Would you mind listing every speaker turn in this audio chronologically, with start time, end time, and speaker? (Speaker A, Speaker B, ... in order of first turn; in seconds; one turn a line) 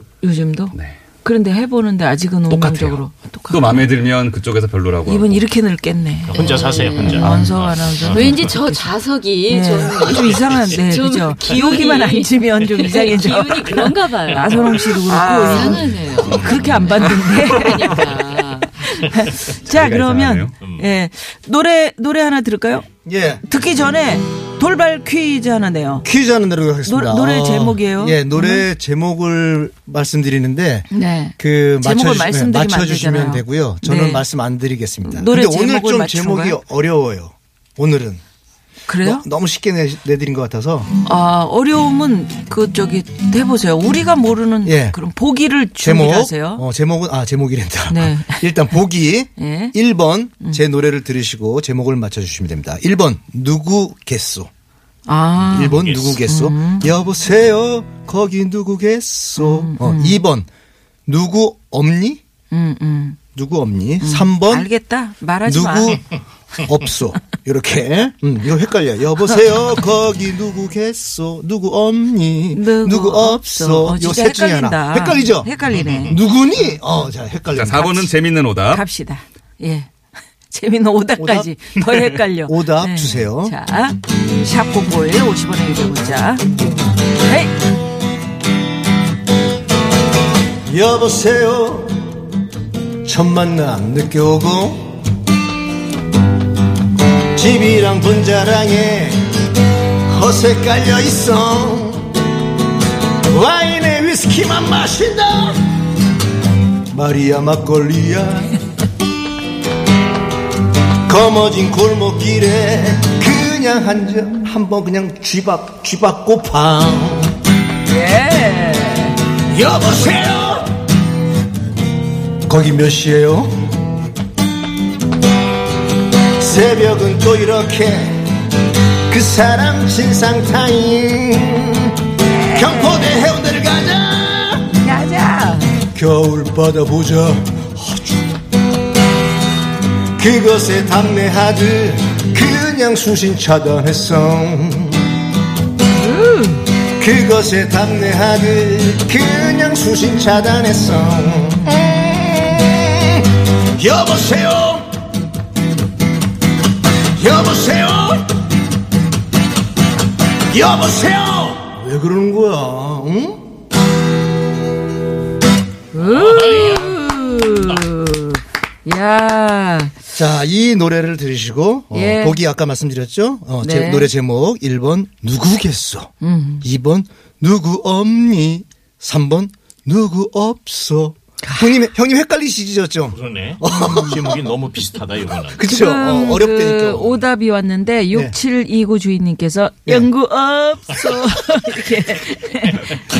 Speaker A: 0.2-3.9
Speaker B: 0.7-1.0
Speaker B: 2.5-5.4
Speaker A: 5.0-8.9
Speaker C: 6.3-8.5
Speaker D: 6.3-7.3
Speaker D: 8.1-18.8
Speaker A: 9.5-18.0
Speaker C: 10.0-10.8
Speaker C: 14.3-17.1
Speaker A: 18.8-22.9
Speaker B: 19.6-20.5
Speaker C: 20.6-20.9
Speaker E: 23.0-23.4
Speaker A: 23.5-26.0
Speaker E: 26.0-38.2
Speaker A: 26.9-28.6
Speaker A: 30.9-34.2
Speaker A: 35.0-36.6
Speaker A: 38.9-39.2
Speaker E: 39.0-40.9
Speaker A: 41.0-46.6
Speaker E: 44.6-45.0
Speaker E: 45.8-54.5
Speaker A: 47.9-48.8
Speaker A: 49.4-49.7
Speaker A: 55.1-56.9
Speaker C: 55.5-56.2
Speaker E: 55.5-60.5
Speaker A: 59.4-60.2
Speaker E: 61.1-62.2
Speaker A: 62.5-63.2
Speaker E: 63.3-64.7
Speaker A: 64.0-66.0
Speaker E: 65.4-66.0
Speaker E: 66.6-75.5
Speaker A: 72.5-76.8
Speaker C: 75.7-76.2
Speaker E: 76.0-78.1
Speaker B: 77.5-78.8
Speaker A: 78.7-79.9
Speaker A: 80.5-86.4
Speaker E: 81.2-81.5
Speaker E: 82.4-83.5
Speaker A: 87.2-87.5
Speaker E: 90.7-92.1
Speaker E: 93.0-95.0
Speaker E: 97.3-99.3
Speaker E: 100.0-102.1
Speaker E: 103.2-105.6
Speaker E: 106.9-108.5
Speaker E: 111.0-117.4
Speaker A: 117.8-119.2
Speaker E: 119.5-120.8
Speaker E: 122.5-123.5
Speaker E: 126.3-128.3
Speaker E: 129.1-134.7
Speaker A: 132.3-133.2
Speaker A: 134.8-135.8
Speaker E: 135.9-138.3
Speaker E: 140.2-145.1
Speaker A: 145.9-146.6
Speaker E: 146.9-154.9
Speaker E: 157.1-158.3
Speaker E: 160.5-163.5
Speaker A: 165.9-169.9
Speaker C: 166.0-167.8
Speaker E: 170.1-176.1
Speaker A: 171.9-172.4
Speaker A: 173.6-174.1
Speaker A: 176.2-176.7
Speaker E: 176.6-184.4
Speaker C: 183.1-185.6
Speaker A: 183.7-184.1
Speaker E: 185.5-187.2
Speaker A: 185.6-193.0